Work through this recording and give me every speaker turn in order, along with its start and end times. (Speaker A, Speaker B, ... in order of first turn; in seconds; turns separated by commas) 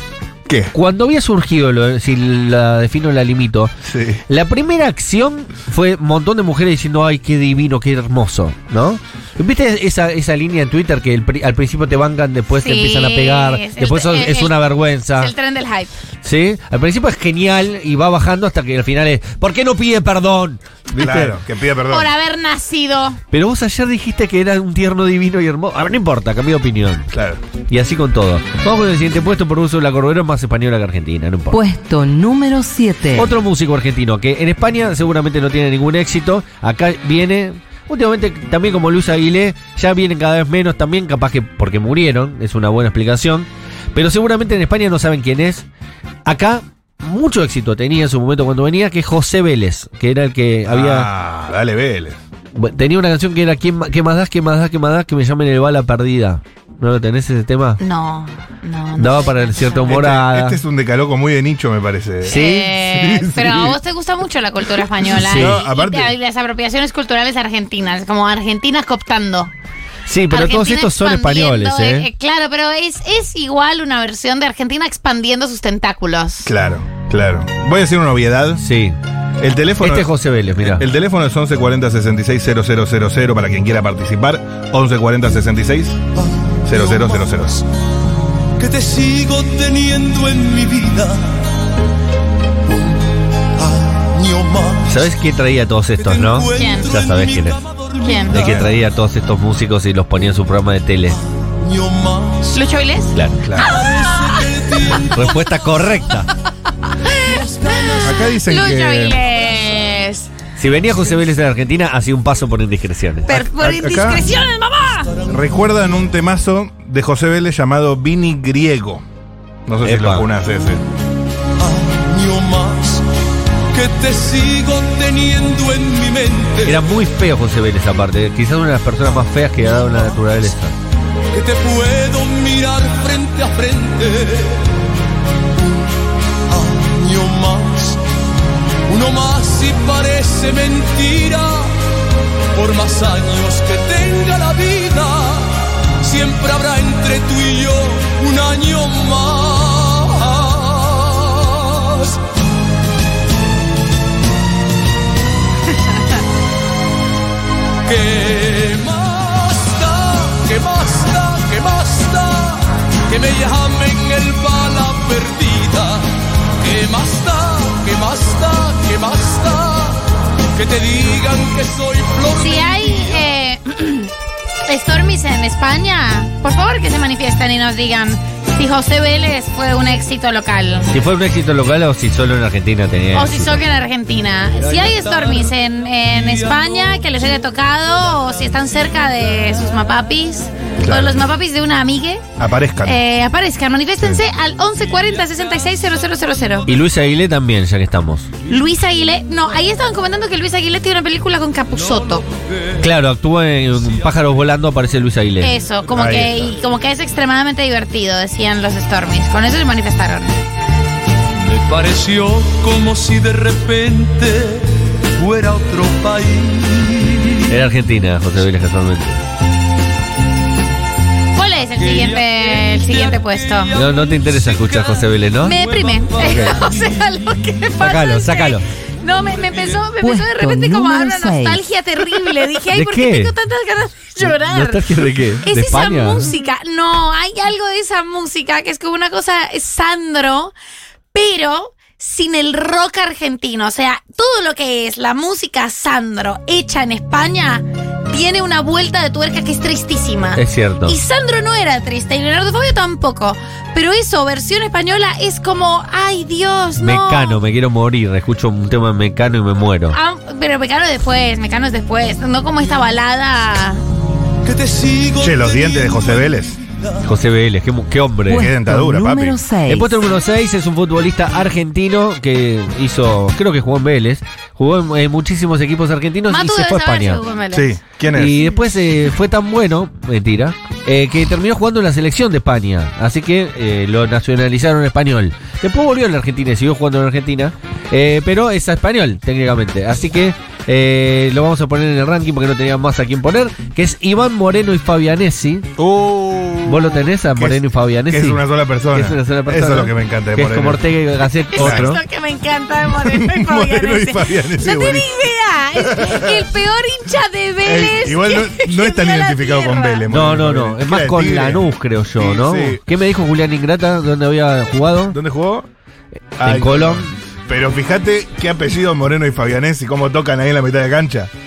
Speaker A: 0.5-0.7, Speaker B: 0.7-3.7, Speaker A: 3.8-4.2, Speaker B: 4.3-15.3, Speaker C: 12.5-15.9, Speaker B: 16.2-21.4, Speaker A: 20.9-22.1, Speaker C: 21.9-23.2, Speaker B: 23.3-27.1, Speaker A: 27.1-27.4, Speaker B: 27.7-31.6, Speaker D: 31.5-33.4, Speaker B: 33.1-45.7, Speaker B: 46.2-51.1, Speaker A: 50.7-52.2, Speaker B: 52.5-57.8, Speaker C: 57.8-59.9, Speaker B: 59.0-60.6, Speaker A: 59.9-63.8, Speaker C: 62.3-69.5, Speaker B: 62.3-62.7, Speaker B: 65.2-65.6, Speaker A: 65.3-66.1, Speaker B: 70.1-72.1, Speaker C: 70.3-76.5, Speaker A: 76.5-78.6, Speaker B: 78.6-79.0, Speaker A: 79.4-86.0, Speaker B: 79.8-80.8, Speaker E: 86.2-87.6, Speaker A: 86.7-87.6, Speaker E: 88.6-91.5, Speaker E: 92.7-95.1, Speaker B: 94.9-97.6, Speaker E: 96.0-98.6, Speaker C: 96.5-96.9, Speaker C: 98.0-98.3, Speaker B: 98.3-101.2, Speaker A: 98.3-98.7, Speaker E: 101.3-102.7, Speaker C: 102.5-104.4, Speaker B: 103.1-103.5, Speaker A: 103.4-103.7, Speaker E: 103.6-105.5, Speaker B: 105.1-106.3, Speaker C: 107.1-107.3, Speaker E: 107.3-108.1, Speaker C: 107.8-110.3, Speaker A: 108.0-109.2, Speaker B: 110.6-113.3, Speaker C: 113.3-115.1, Speaker A: 113.3-114.3, Speaker E: 115.0-115.4, Speaker A: 115.3-119.0, Speaker A: 119.7-120.8, Speaker B: 119.8-120.3, Speaker E: 121.6-123.0, Speaker E: 123.7-126.9, Speaker B: 126.6-130.8, Speaker E: 131.3-134.7, Speaker E: 136.5-138.0, Speaker E: 138.9-141.8, Speaker E: 142.5-152.2, Speaker E: 157.8-166.1, Speaker E: 166.6-173.2, Speaker C: 172.3-174.1, Speaker C: 174.7-180.9, Speaker B: 180.9-183.6, Speaker C: 183.1-192.2, Speaker E: 184.6-185.5, Speaker E: 186.2-186.9, Speaker A: 190.8-191.2, Speaker A: 192.4-193.0, Speaker C: 192.8-196.7, Speaker B: 196.7-198.3, Speaker C: 198.5-202.3, Speaker B: 202.8-205.5, Speaker C: 205.4-210.4, Speaker A: 205.9-206.5, Speaker E: 211.3-217.4, Speaker B: 217.5-219.2, Speaker C: 221.3-223.8, Speaker E: 221.8-227.0, Speaker B: 223.7-225.6, Speaker C: 225.4-234.9, Speaker B: 227.8-228.7, Speaker E: 229.5-229.8, Speaker D: 230.0-231.6, Speaker B: 232.7-233.3, Speaker B: 234.2-236.3, Speaker C: 235.4-240.5, Speaker C: 241.1-257.4, Speaker B: 250.4-251.0, Speaker B: 256.8-260.0, Speaker C: 259.9-263.8, Speaker E: 264.4-267.0, Speaker A: 265.2-266.6, Speaker B: 267.0-268.5, Speaker D: 268.3-270.0, Speaker A: 268.3-269.4, Speaker B: 269.7-277.2, Speaker C: 276.3-277.8, Speaker A: 277.5-278.5, Speaker B: 278.1-295.7, Speaker A: 295.8-300.8, Speaker B: 296.7-302.0, Speaker C: 301.5-310.1, Speaker A: 301.6-301.9, Speaker A: 303.0-305.1, Speaker A: 305.8-306.5, Speaker A: 307.6-312.8, Speaker B: 310.1-315.2, Speaker A: 315.1-315.7, Speaker A: 316.4-321.3, Speaker B: 316.4-317.1